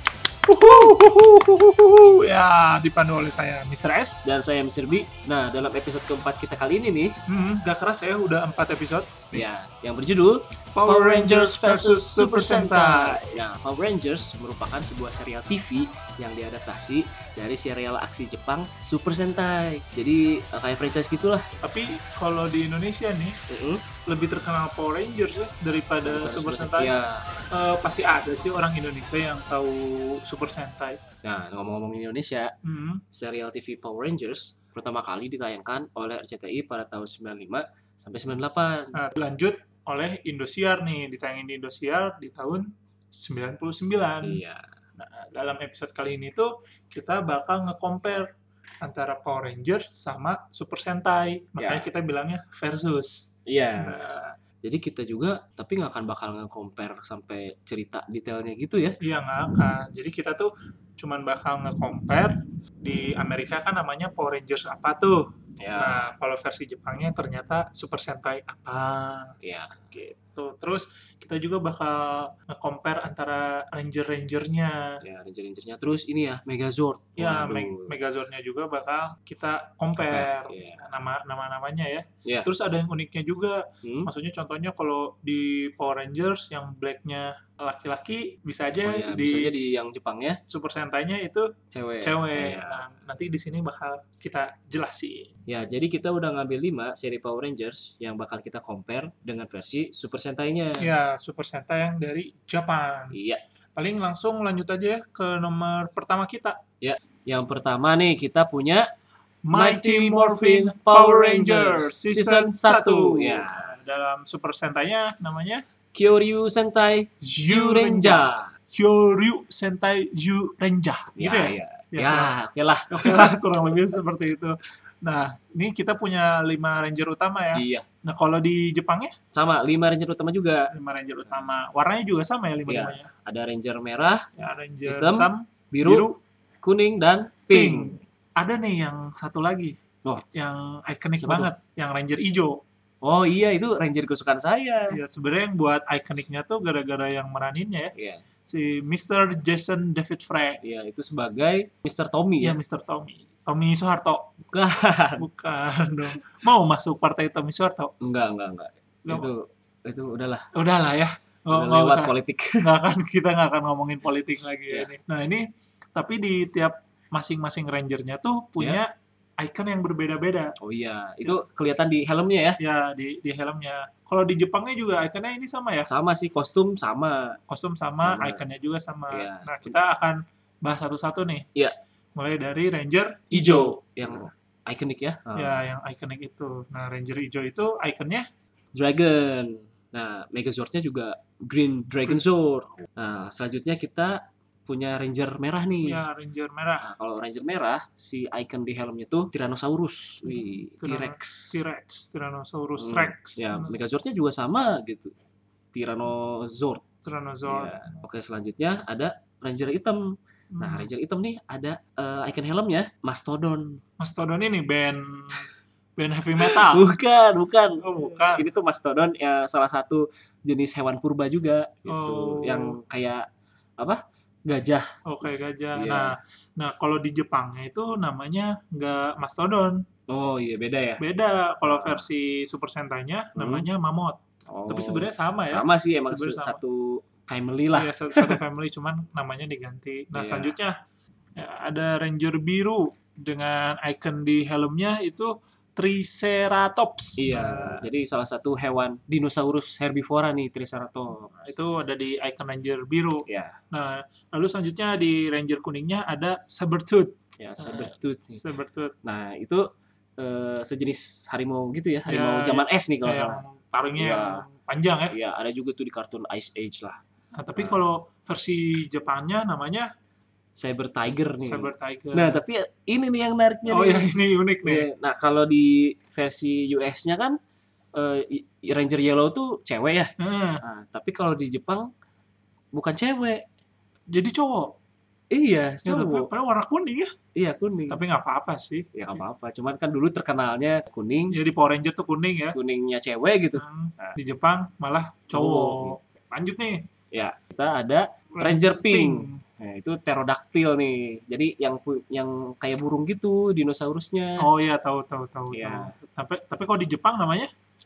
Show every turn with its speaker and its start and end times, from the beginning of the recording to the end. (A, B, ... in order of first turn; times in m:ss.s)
0:00.5-0:04.2 A
0:04.2-0:07.2 B
0:07.3-0:09.4 A
0:09.3-0:21.5 B
0:10.7-0:13.3 A
0:21.6-0:23.4 A
0:23.5-0:23.8 B
0:24.1-0:26.9 A
0:26.0-0:27.3 B
0:27.5-0:31.0 A
0:31.2-0:32.5 B
0:32.6-0:33.0 A
0:33.1-0:39.0 B
0:39.0-0:44.4 A
0:44.2-0:44.7 B
0:45.0-0:48.3 A
0:48.8-0:54.4 A
0:51.6-0:51.9 B
0:53.5-0:54.0 B
0:54.6-0:59.0 B
0:59.0-1:09.4 A
1:05.6-1:06.1 B
1:09.4-1:10.1 B
1:10.0-1:15.0 A
1:15.0-1:18.0 B
1:17.2-1:29.5 A
1:20.0-1:20.8 B
1:23.8-1:24.1 B
1:28.8-1:30.4 B
1:30.5-1:35.3 A
1:31.7-1:32.8 B
1:35.5-1:40.9 B
1:40.8-1:43.2 A
1:43.1-1:43.4 B
1:43.8-1:46.6 A
1:46.8-1:48.9 B
1:49.4-1:55.6 A
1:49.5-1:53.7 B
1:55.9-1:58.5 B
1:57.2-2:02.3 A
2:01.2-2:03.4 B
2:02.9-2:09.2 A
2:07.6-2:07.9 B
2:09.3-2:10.7 B
2:10.7-2:13.1 A
2:11.2-2:11.5 B
2:12.7-2:14.3 B
2:14.4-2:16.2 A
2:14.8-2:16.1 B
2:16.6-2:18.0 B
2:17.5-2:19.8 A
2:20.3-2:22.6 A
2:21.2-2:21.5 B
2:23.0-2:25.0 B
2:24.9-2:27.9 A
2:28.0-2:28.2 B
2:28.5-2:30.6 A
2:30.6-2:32.6 B
2:32.4-2:34.3 A
2:34.5-2:35.3 B
2:35.2-2:37.9 A
2:38.0-2:40.5 B
2:39.1-2:39.3 A
2:40.5-2:50.5 A
2:41.5-2:42.7 B
2:50.6-2:52.6 B
2:52.6-2:55.9 A
2:55.9-2:57.4 B
2:57.5-3:01.5 A
2:58.0-2:58.4 B
2:59.1-2:59.7 B
3:02.2-3:03.8 A
3:03.3-3:05.6 B
3:05.4-3:08.3 A
3:08.8-3:16.0 B
3:15.8-3:16.9 A
3:16.8-3:21.6 B
3:20.3-3:23.8 A
3:22.8-3:25.1 B
3:25.7-3:26.8 B
3:27.0-3:27.9 A
3:27.5-3:33.8 B
3:30.5-3:30.9 A
3:34.0-3:36.8 A
3:36.4-3:43.3 B
3:37.8-3:38.5 A
3:41.9-3:42.8 A
3:43.8-3:44.9 B
3:45.0-3:49.8 A
3:45.8-3:46.2 B
3:50.1-3:51.0 B
3:51.0-3:56.6 A
3:51.7-3:52.1 B
3:53.4-3:53.7 B
3:54.5-3:58.4 B
3:57.7-4:00.8 A
4:00.1-4:00.5 B
4:01.4-4:07.9 A
4:07.2-4:11.4 B
4:11.4-4:19.0 A
4:13.3-4:13.6 B
4:17.4-4:18.4 B
4:19.0-4:19.7 B
4:20.2-4:23.4 B
4:22.1-4:25.2 A
4:24.0-4:24.4 B
4:25.1-4:27.0 B
4:27.4-4:29.9 A
4:30.6-4:34.1 B
4:31.4-4:32.4 A
4:33.7-4:34.9 A
4:34.6-4:37.4 B
4:37.9-4:41.9 B
4:40.2-4:40.6 A
4:42.7-4:43.4 B
4:44.1-4:44.8 A
4:45.3-4:46.3 B
4:45.8-4:47.2 A
4:47.4-4:48.0 B
4:47.9-4:48.9 A
4:48.9-4:51.4 B
4:51.3-4:52.6 A
4:52.5-4:54.2 B
4:53.6-4:56.8 A
4:55.3-4:56.0 B
4:57.1-5:04.5 B
4:58.3-4:59.4 A
5:04.4-5:07.5 A
5:05.5-5:05.9 B